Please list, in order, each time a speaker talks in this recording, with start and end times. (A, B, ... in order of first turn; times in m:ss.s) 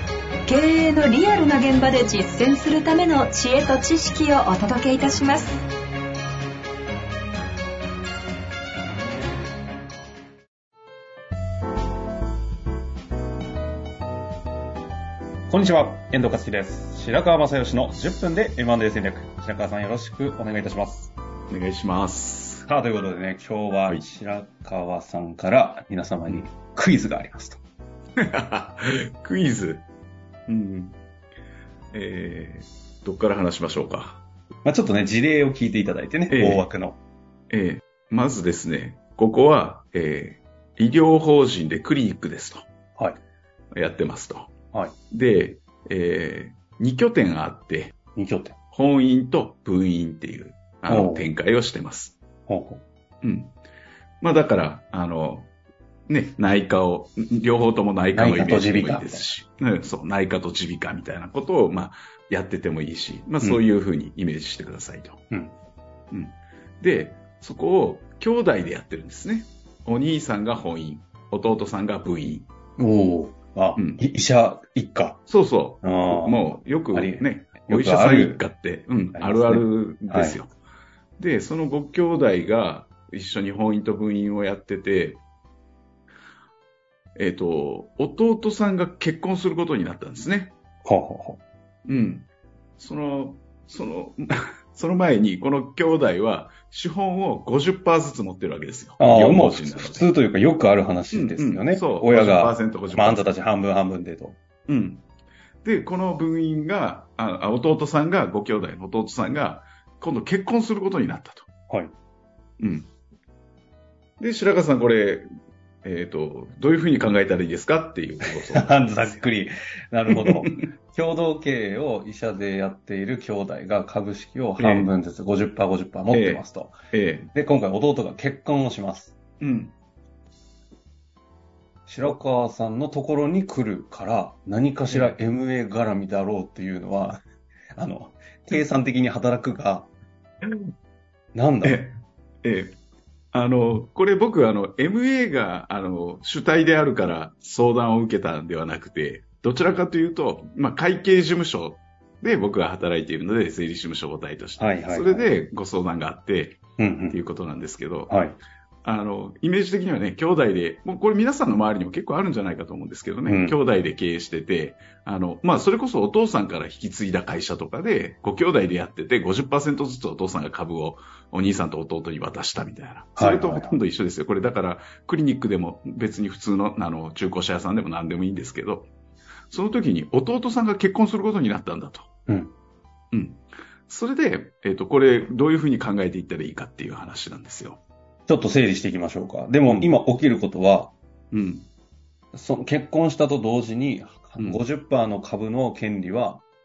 0:00.5-0:05.6 A
0:15.5-0:21.1 B
0:21.5-0:22.7 C
0:22.7-0:27.6 B
0:28.2-0:29.8 C
0:30.5-0:31.0 C
0:31.9-0:34.2 C
0:34.6-0:37.0 B
0:36.3-0:36.7 C
0:37.5-0:42.7 C
0:43.7-0:44.6 C
0:45.1-0:48.0 C
0:48.2-0:48.6 B
0:48.7-0:52.2 C
0:50.9-0:51.3 B
0:52.5-0:52.8 B
0:53.2-0:53.5 C
0:54.2-0:55.5 C
0:56.1-1:05.2 C
0:58.1-0:59.3 B
1:06.1-1:12.5 C
1:12.8-1:15.2 B
1:13.8-1:14.0 C
1:15.3-1:20.5 C
1:15.8-1:18.4 B
1:19.2-1:20.4 B
1:21.2-1:25.2 C
1:27.2-1:30.5 C
1:30.8-1:31.4 B
1:31.9-1:40.1 C
1:39.0-1:44.4 B
1:41.1-1:43.3 C
1:44.7-1:45.0 C
1:45.6-1:51.5 C
1:52.6-1:52.9 C
1:54.2-1:55.3 C
1:55.8-1:59.2 C
1:58.2-2:06.8 B
2:00.1-2:00.7 C
2:04.6-2:04.9 C
2:06.1-2:07.3 C
2:07.3-2:09.1 B
2:09.4-2:09.7 C
2:11.9-2:17.2 B
2:14.9-2:15.2 C
2:17.8-2:19.9 B
2:21.3-2:21.9 B
2:21.6-2:22.8 C
2:23.3-2:38.2 C
2:34.6-2:35.3 B
2:36.8-2:37.2 B
2:38.1-2:38.4 B
2:38.8-2:58.9 C
2:43.3-2:43.6 B
2:53.2-2:53.8 B
2:59.5-3:02.1 C
3:02.3-3:02.5 B
3:03.1-3:07.8 C
3:08.3-3:10.9 B
3:09.6-3:09.9 C
3:11.3-3:11.7 C
3:12.3-3:16.4 B